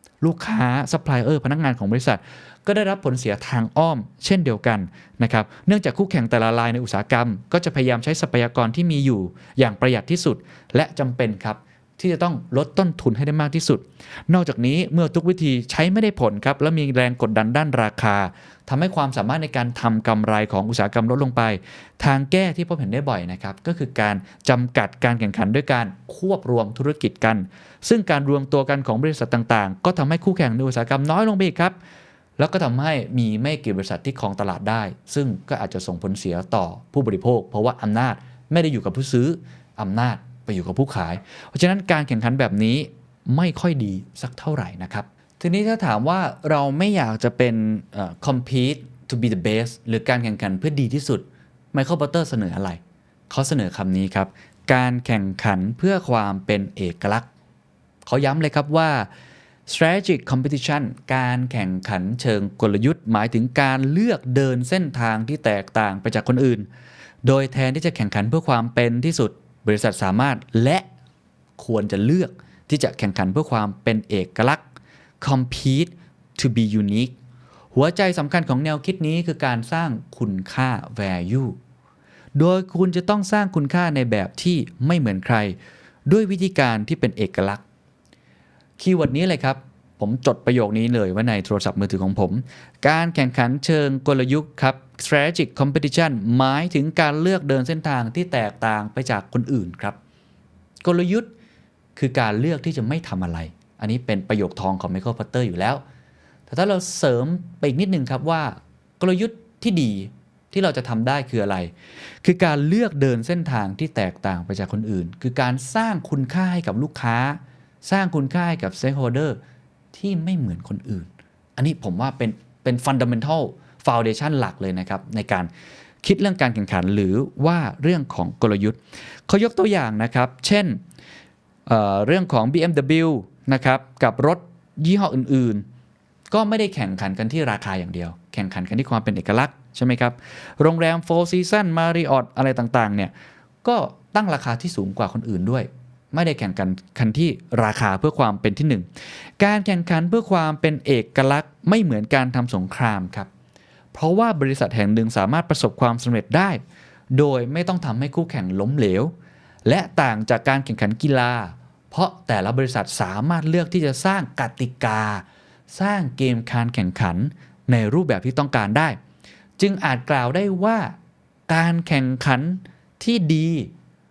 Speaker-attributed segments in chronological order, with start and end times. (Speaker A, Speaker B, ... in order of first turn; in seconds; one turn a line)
Speaker A: 0.2-31.8
Speaker A: 32.4-57.3
Speaker A: 58.1-59.1
Speaker A: 59.7-66.7
Speaker A: 67.2-70.9
Speaker A: 71.6-74.6
Speaker A: 75.2-77.2
Speaker A: 77.7-81.6
Speaker A: 82.3-85.6
Speaker A: 86.1-87.6
Speaker A: 88.8-100.0
Speaker A: 100.8-101.3
Speaker A: 102.0-105.8
Speaker A: 106.5-111.7
Speaker A: 112.2-119.4
Speaker A: 119.9-125.5
Speaker A: 126.0-130.8
Speaker A: 131.7-135.6
Speaker A: 136.3-143.1
Speaker A: 143.6-148.9
Speaker A: 149.4-153.3
Speaker A: 153.9-156.6
Speaker A: 157.1-159.1
Speaker A: 159.7-169.0
Speaker A: 169.6-170.9
Speaker A: 171.5-173.7